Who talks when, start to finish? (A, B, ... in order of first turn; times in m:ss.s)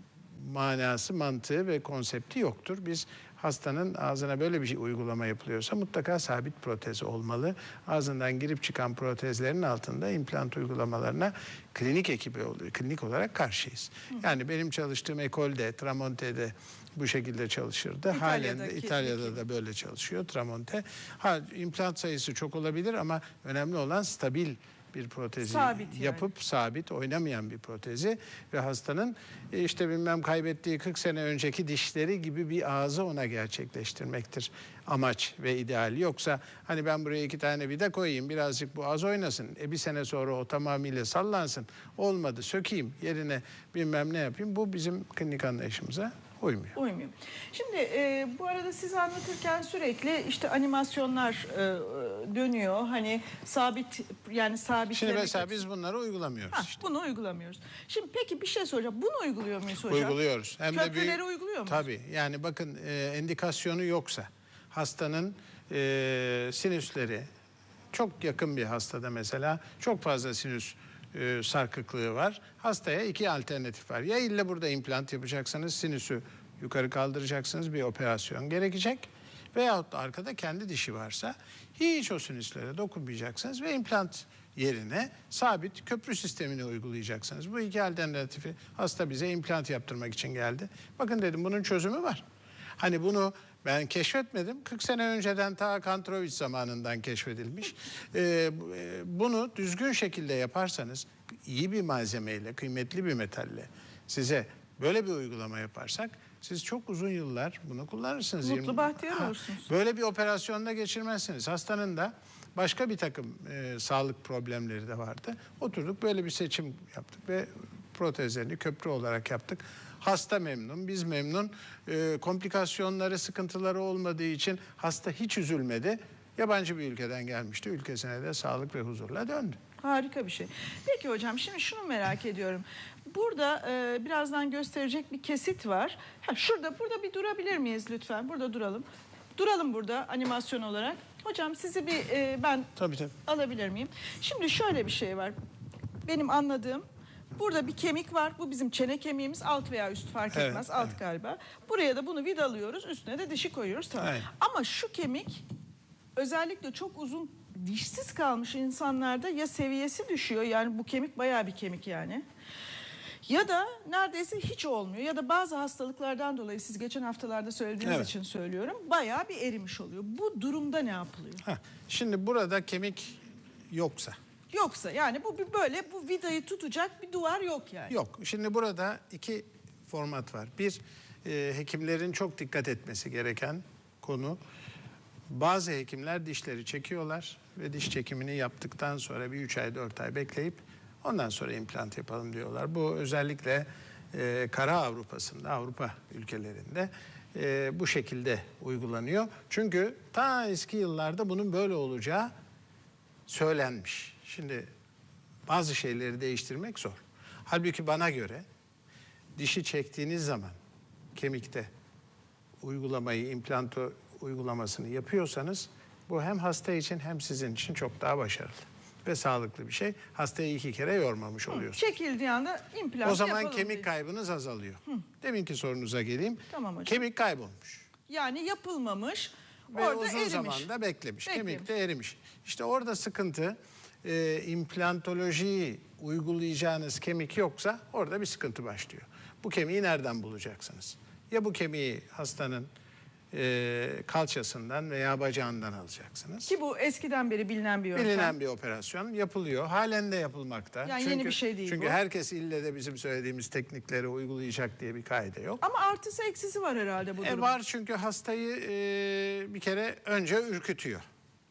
0:00.4-0:46.8 A
0:18.1-0:19.4 B
0:25.4-0:26.3 B
0:46.8-0:55.6 B
0:54.9-0:56.8 A
0:56.5-1:00.2 B
0:59.9-1:07.3 A
1:00.7-1:01.9 B
1:07.9-1:32.2 A
1:32.8-2:09.6 A
1:48.4-1:49.7 B
2:09.8-2:18.8 B
2:19.4-2:22.7 B
2:22.8-2:23.1 A
2:23.2-2:25.3 B
2:26.0-2:26.8 B
2:27.4-2:35.4 B
2:30.3-2:31.0 A
2:34.0-2:34.3 A
2:36.2-2:42.2 B
2:43.2-2:51.4 B
2:47.8-2:48.1 A
2:51.4-2:54.2 A
2:54.5-2:57.9 B
2:57.9-3:04.4 A
3:05.3-3:22.3 A
3:23.3-3:24.7 A
3:25.5-3:28.4 A
3:29.4-3:30.5 A
3:31.2-3:31.7 A
3:32.6-3:41.8 A
3:41.5-3:43.9 B
3:43.0-3:47.9 A
3:46.5-3:47.0 B
3:48.1-3:50.7 B
3:49.7-4:02.7 A
3:51.3-3:51.6 B
4:03.3-4:06.5 A
4:06.4-4:08.3 B
4:07.9-4:15.6 A
4:10.8-4:12.0 B
4:15.6-4:17.5 B
4:17.2-4:21.0 A